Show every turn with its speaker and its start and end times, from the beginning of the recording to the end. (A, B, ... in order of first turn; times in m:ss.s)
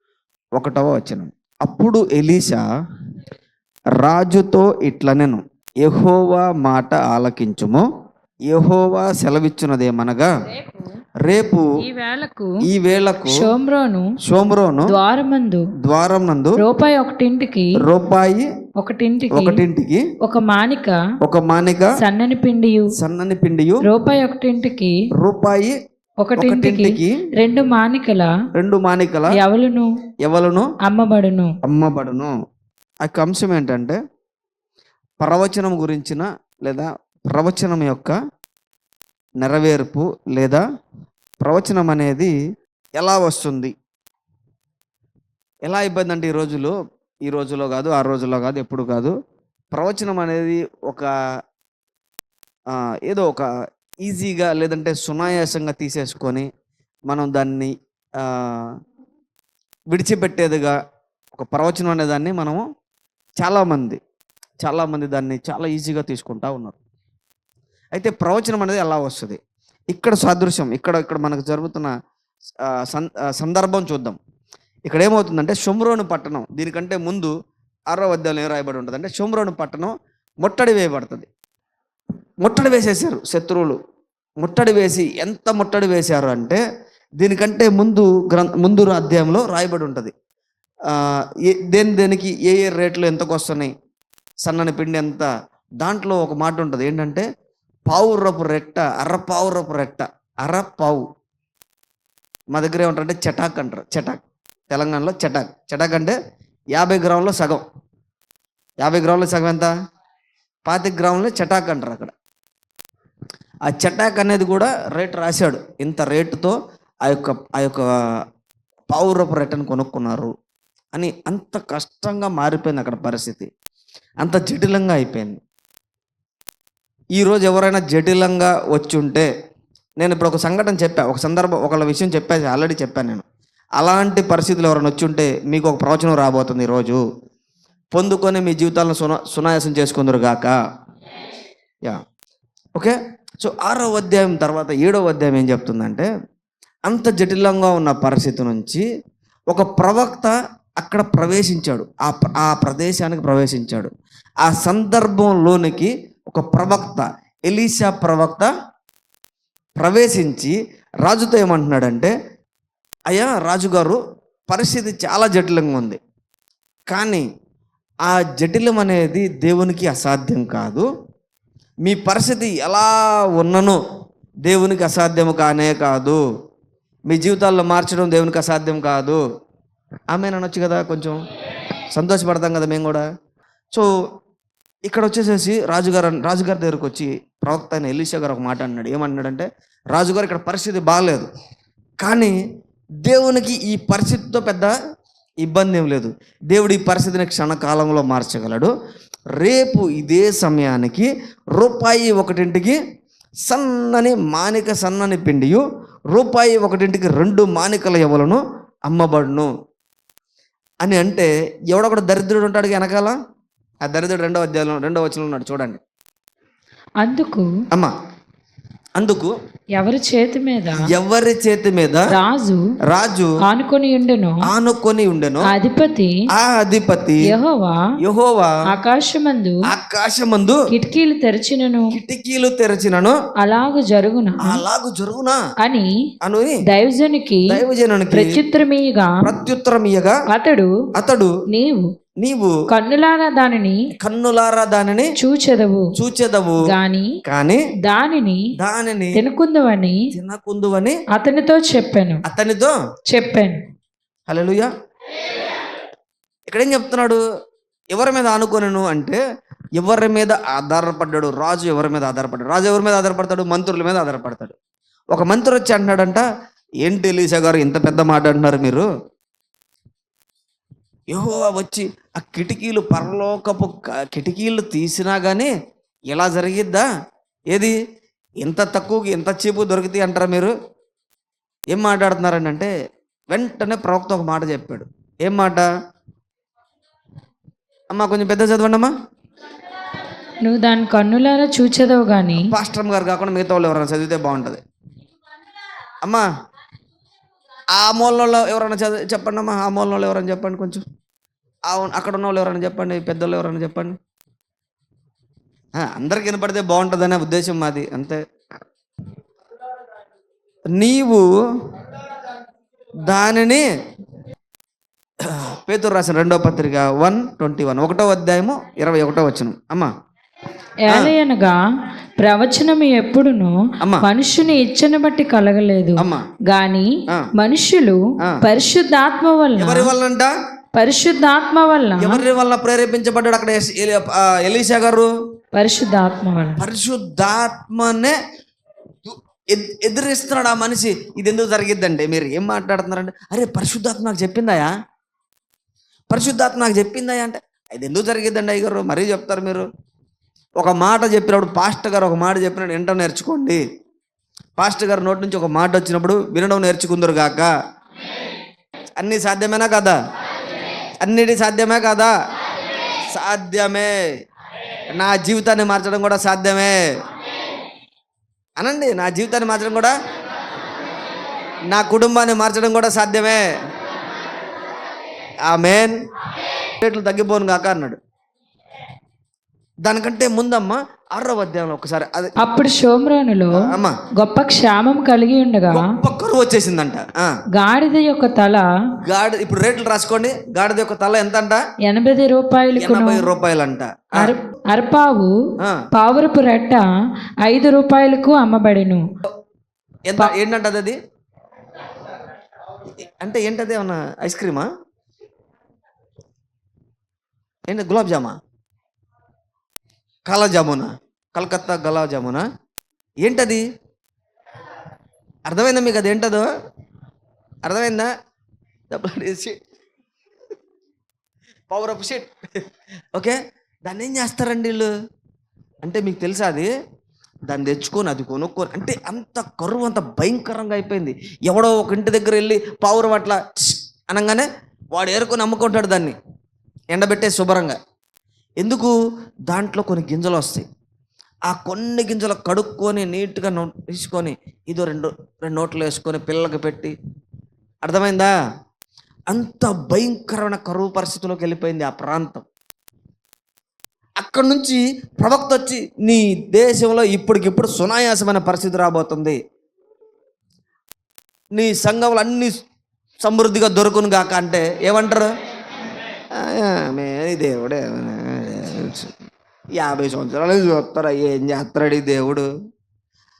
0:00.6-0:02.6 A
0:04.0-0:07.8 A
0:08.5-0:10.3 A
0:10.5-0:10.9 B
0:11.2-0:11.7 A
0:11.8-0:12.6 B
0:12.6-0:13.4 A
0:13.3-0:14.1 B
0:14.2-0:14.9 A
0:14.9-0:15.7 B
0:15.8-0:16.5 A
0:16.6-0:17.8 B
0:17.8-0:18.5 A
0:18.8-0:19.6 B
0:19.3-0:20.0 A
0:20.2-0:21.0 B
0:21.2-0:21.9 A
0:22.0-0:22.9 B
0:23.0-0:23.8 A
0:23.8-0:25.0 B
0:25.2-0:25.7 A
0:26.2-0:28.3 B
0:26.4-0:27.2 A
0:28.6-0:29.4 A
0:29.3-0:29.9 B
0:30.2-0:30.7 A
0:30.8-0:31.6 B
0:31.6-0:32.3 A
0:33.0-0:34.0 A
0:35.2-0:38.1 A
0:39.4-0:40.6 A
0:41.4-0:42.3 A
0:43.0-0:43.7 A
0:45.6-0:46.7 A
0:47.2-0:49.1 A
0:49.7-0:51.1 A
0:52.7-0:53.5 A
0:54.0-0:56.5 A
0:57.1-0:57.7 A
0:58.2-0:58.7 A
0:59.9-1:00.7 A
1:01.3-1:02.6 A
1:03.4-1:04.0 A
1:04.6-1:06.8 A
1:07.9-1:09.4 A
1:09.9-1:11.9 A
1:12.7-1:14.2 A
1:14.9-1:17.3 A
1:17.9-1:21.3 A
1:22.4-1:23.8 A
1:24.4-1:26.6 A
1:27.2-1:30.1 A
1:30.9-1:33.7 A
1:34.4-1:35.3 A
1:35.8-1:37.2 A
1:37.9-1:41.0 A
1:42.5-1:46.2 A
1:46.7-1:47.6 A
1:48.8-1:49.7 A
1:50.6-1:52.1 A
1:53.6-1:57.8 A
1:58.9-2:00.3 A
2:00.9-2:03.5 A
2:04.2-2:05.4 A
2:07.2-2:09.3 A
2:10.0-2:13.2 A
2:13.8-2:17.0 A
2:17.9-2:20.6 A
2:22.8-2:26.1 A
2:26.9-2:28.8 A
2:29.5-2:33.9 A
2:34.4-2:38.5 A
2:39.8-2:42.1 A
2:43.1-2:46.0 A
2:46.9-2:47.2 A
2:48.0-2:50.9 A
2:51.8-2:53.8 A
2:54.4-2:56.2 A
2:57.1-2:59.2 A
3:00.1-3:01.2 A
3:01.9-3:03.0 A
3:04.9-3:11.3 A
3:12.0-3:12.3 A
3:13.0-3:14.7 A
3:15.4-3:18.7 A
3:19.4-3:22.8 A
3:23.4-3:29.5 A
3:30.8-3:33.2 A
3:33.8-3:35.8 A
3:37.0-3:37.5 B
3:39.0-3:39.3 A
3:39.8-3:40.9 B
3:40.7-3:42.0 A
3:42.1-3:42.6 B
3:42.9-3:43.3 A
3:43.4-3:44.4 B
3:44.4-3:45.5 A
3:45.4-3:46.1 B
3:46.3-3:47.3 A
3:47.3-3:47.8 B
3:48.0-3:48.5 A
3:48.7-3:49.6 B
3:49.7-3:50.6 A
3:50.7-3:51.9 B
3:51.9-3:53.1 A
3:53.4-3:54.6 B
3:54.4-3:55.4 A
3:55.6-3:55.9 B
3:56.2-3:56.6 A
3:56.7-3:57.5 B
3:57.5-3:58.4 A
3:58.1-3:59.2 B
3:59.2-4:00.2 A
4:00.3-4:00.7 B
4:01.0-4:01.3 A
4:01.5-4:01.9 B
4:02.2-4:02.5 A
4:02.7-4:03.8 B
4:04.0-4:05.1 A
4:05.2-4:05.9 B
4:05.9-4:06.6 A
4:06.7-4:07.2 B
4:07.2-4:07.6 A
4:07.8-4:08.5 B
4:08.6-4:09.2 A
4:09.1-4:10.1 B
4:10.1-4:11.0 A
4:11.1-4:12.2 B
4:12.2-4:12.7 A
4:13.1-4:13.6 B
4:14.3-4:14.7 A
4:16.5-4:17.2 A
4:17.9-4:19.2 A
4:19.8-4:24.5 A
4:25.1-4:26.2 A
4:26.8-4:28.9 A
4:31.1-4:35.5 A
4:36.1-4:36.8 A
4:38.4-4:40.5 A
4:41.7-4:42.7 A
4:43.3-4:45.7 A
4:47.9-4:48.9 A
4:50.4-4:52.5 B
4:52.4-4:54.6 A
4:57.7-5:00.8 A
5:01.7-5:04.0 A
5:05.8-5:08.2 A
5:10.8-5:11.2 A
5:13.1-5:13.6 A
5:15.3-5:19.9 A
5:20.8-5:21.6 B
5:22.2-5:29.9 B
5:26.0-5:26.2 A
5:29.6-5:30.3 A
5:30.7-5:32.2 B
5:32.0-5:35.1 A
5:35.5-5:36.6 B
5:36.6-5:38.1 A
5:39.0-5:44.7 A
5:46.1-5:49.7 A
5:50.6-5:53.6 A
5:54.6-5:57.5 A
5:59.0-6:00.0 A
6:01.0-6:02.1 A
6:03.1-6:03.9 A
6:05.0-6:06.8 A
6:08.6-6:09.9 A
6:11.7-6:13.4 A
6:15.5-6:15.9 A
6:16.8-6:18.0 A
6:19.8-6:22.4 A
6:22.4-6:26.0 B
6:23.6-6:24.0 A
6:25.7-6:27.3 A
6:27.5-6:28.6 B
6:29.1-6:31.6 A
6:31.8-6:33.2 B
6:32.8-6:34.3 A
6:34.2-6:35.3 B
6:35.9-6:36.8 B
6:37.4-6:39.0 B
6:40.1-6:41.0 A
6:43.1-6:44.7 A
6:47.7-6:48.4 A
6:50.3-6:52.4 A
6:53.2-6:53.6 A
6:55.5-6:56.5 A
6:57.6-6:58.1 A
6:58.9-6:59.6 A
7:01.7-7:02.6 A
7:03.1-7:04.9 A
7:05.8-7:06.7 A
7:07.5-7:16.2 A
7:16.9-7:17.8 A
7:18.6-7:18.9 A
7:19.5-7:20.6 A
7:21.5-7:26.9 A
7:27.8-7:28.3 A
7:29.3-7:32.4 A
7:34.2-7:39.4 A
7:41.5-7:42.6 A
7:43.2-7:45.3 A
7:46.4-7:49.1 A
7:49.8-7:52.5 A